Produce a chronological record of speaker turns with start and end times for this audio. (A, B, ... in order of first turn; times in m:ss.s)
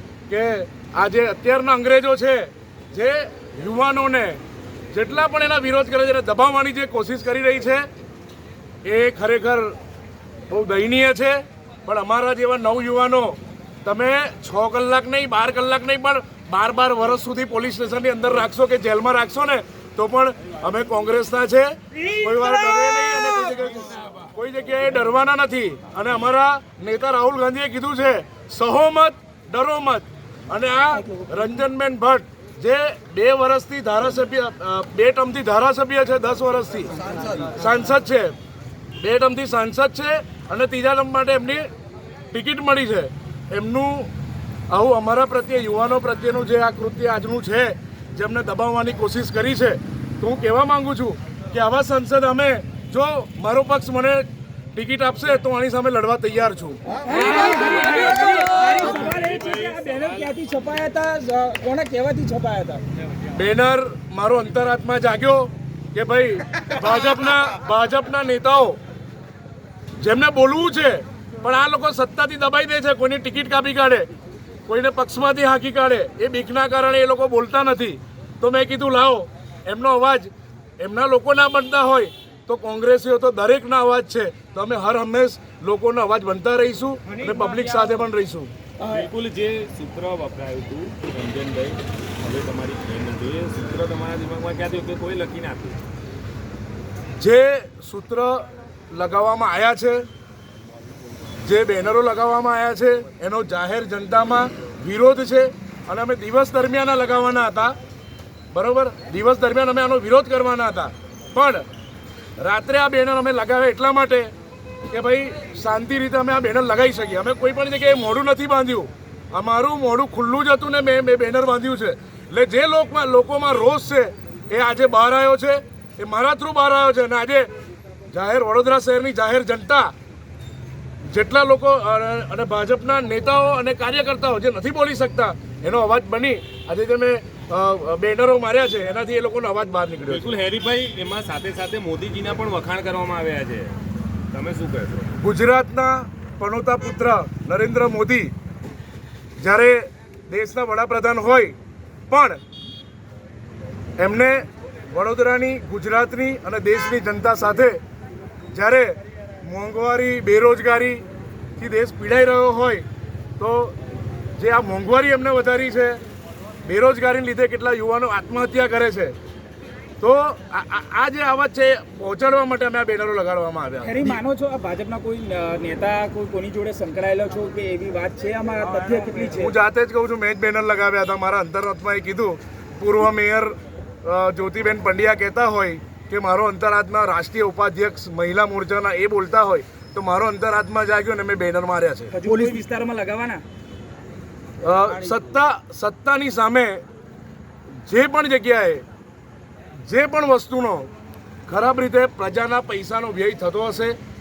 0:00.3-0:07.8 A
0:08.8-0:09.8 A
0:10.5-0:36.9 A
0:37.5-0:38.3 A
0:39.0-0:41.7 A
0:42.3-0:44.1 A
0:44.7-0:56.8 A
0:57.0-1:02.8 B
0:57.2-1:00.3 C
1:03.3-1:08.8 A
1:10.0-1:14.1 A
1:14.7-1:28.5 A
1:27.1-1:28.0 B
1:28.8-1:29.1 B
1:28.9-1:35.8 C
1:37.2-1:40.1 A
1:41.4-1:47.8 A
1:48.5-1:51.6 A
1:52.4-1:54.3 A
1:54.9-2:07.5 A
2:08.1-2:09.9 A
2:11.1-2:20.3 A
2:20.1-2:23.7 C
2:24.3-2:25.1 C
2:25.2-2:28.3 A
2:29.4-2:31.6 A
2:32.1-2:32.4 A
2:34.0-2:37.8 A
2:38.5-2:41.0 A
2:41.6-2:42.8 A
2:43.4-2:43.8 A
2:44.4-2:46.0 A
2:46.6-2:49.1 A
2:50.0-2:54.2 A
2:53.8-2:59.6 B
2:58.8-3:12.2 A
3:12.1-3:13.4 B
3:14.6-3:16.8 A
3:14.8-3:15.2 B
3:17.8-3:18.8 A
3:19.8-3:20.9 A
3:21.5-3:24.0 A